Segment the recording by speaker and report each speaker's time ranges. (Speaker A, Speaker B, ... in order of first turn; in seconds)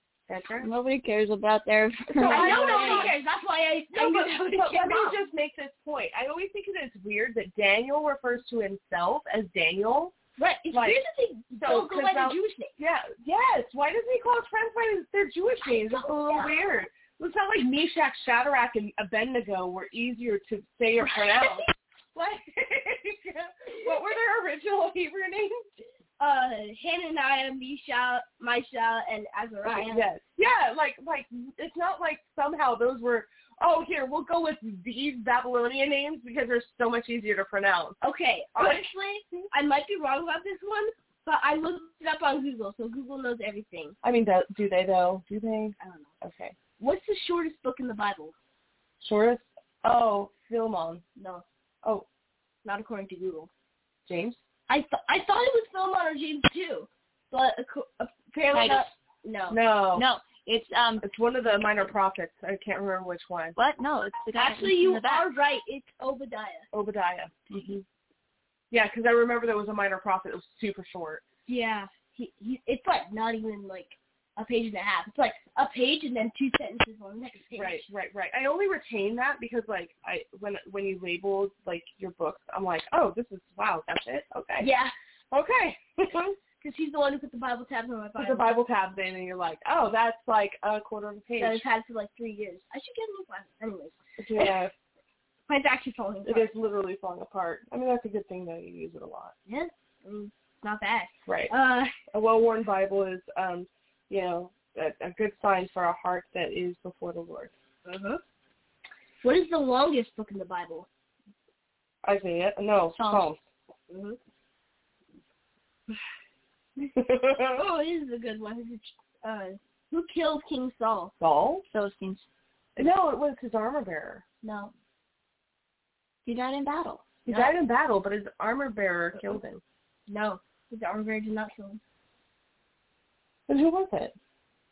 Speaker A: 0.3-0.7, 2.1-3.2, 3.9-10.1, 10.7-11.0, 11.6-25.7, 29.6-38.0, 38.6-39.4, 44.0-46.6, 49.0-51.0, 54.1-54.4, 59.5-60.1, 61.0-63.6, 66.7-67.8, 68.7-71.2, 77.5-84.7, 85.3-86.4, 88.2-91.6, 94.2-94.7, 96.3-99.3, 101.3-101.5, 102.1-107.5, 112.0-113.4, 117.0-117.6, 121.2-121.7, 122.8-124.2, 127.2-129.6, 133.5-134.2
Speaker B: 0.6-3.2, 58.5-58.9, 59.9-61.0, 63.6-65.3, 113.0-113.3, 121.7-122.2, 126.3-127.2
Speaker C: 2.2-5.2, 10.4-12.8, 15.7-16.6, 26.2-30.1, 38.0-44.0, 45.8-46.1, 46.8-48.3, 51.2-51.5, 52.6-53.5, 54.7-59.6, 64.3-66.7, 71.5-77.9, 84.6-84.9, 86.6-88.5, 91.4-94.5, 95.5-96.5, 99.5-102.0, 107.8-108.2, 109.2-110.9, 113.9-114.2, 117.5-121.1, 124.4-124.7, 127.3-127.6, 130.1-131.8